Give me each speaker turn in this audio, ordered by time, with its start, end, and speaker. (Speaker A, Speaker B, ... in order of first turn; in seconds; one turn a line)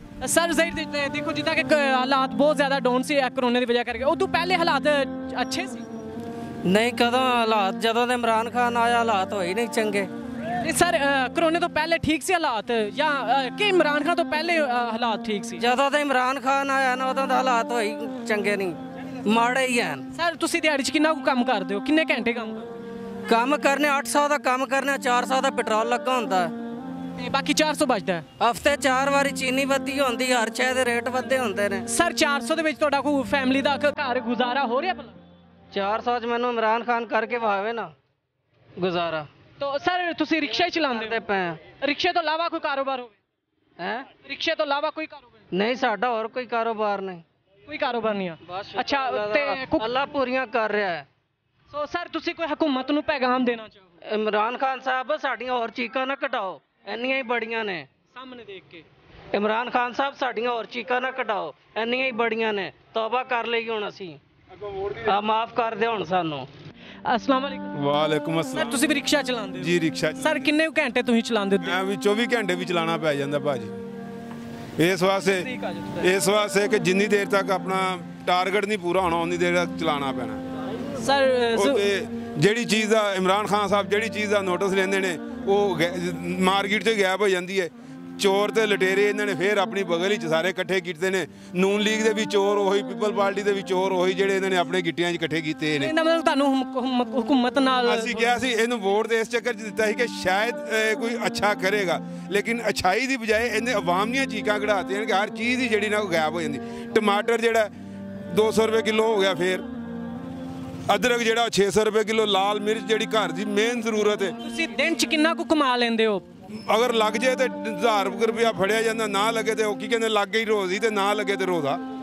Speaker A: 0.2-5.8
Speaker B: 6.7-10.1
Speaker A: 10.6-15.6
Speaker B: 15.6-20.0
Speaker A: 20.1-22.8
Speaker B: 23.3-26.5
Speaker A: 27.2-28.3
Speaker B: 28.4-31.9
Speaker A: 31.9-35.1
Speaker B: 35.7-37.9
Speaker B: 38.8-39.3
Speaker A: 39.6-41.2
Speaker B: 40.8-41.6
Speaker A: 41.7-43.1
Speaker B: 43.8-44.1
Speaker A: 44.2-45.3
Speaker B: 45.5-47.2
Speaker A: 47.7-49.9
Speaker B: 48.5-51.1
Speaker A: 51.7-53.9
Speaker B: 54.1-57.9
Speaker A: 58.1-58.9
Speaker B: 59.3-64.2
Speaker B: 65.0-66.5
Speaker A: 67.1-67.7
Speaker C: 67.8-68.8
Speaker A: 68.5-71.8
Speaker C: 69.6-70.5
Speaker C: 71.6-73.7
Speaker C: 74.8-75.5
Speaker A: 75.3-76.1
Speaker C: 76.0-80.4
Speaker A: 81.0-81.8
Speaker C: 81.6-95.9
Speaker A: 95.8-98.3
Speaker C: 97.8-107.7
Speaker C: 108.3-109.6
Speaker C: 110.9-114.3
Speaker A: 114.4-116.2
Speaker C: 116.7-121.8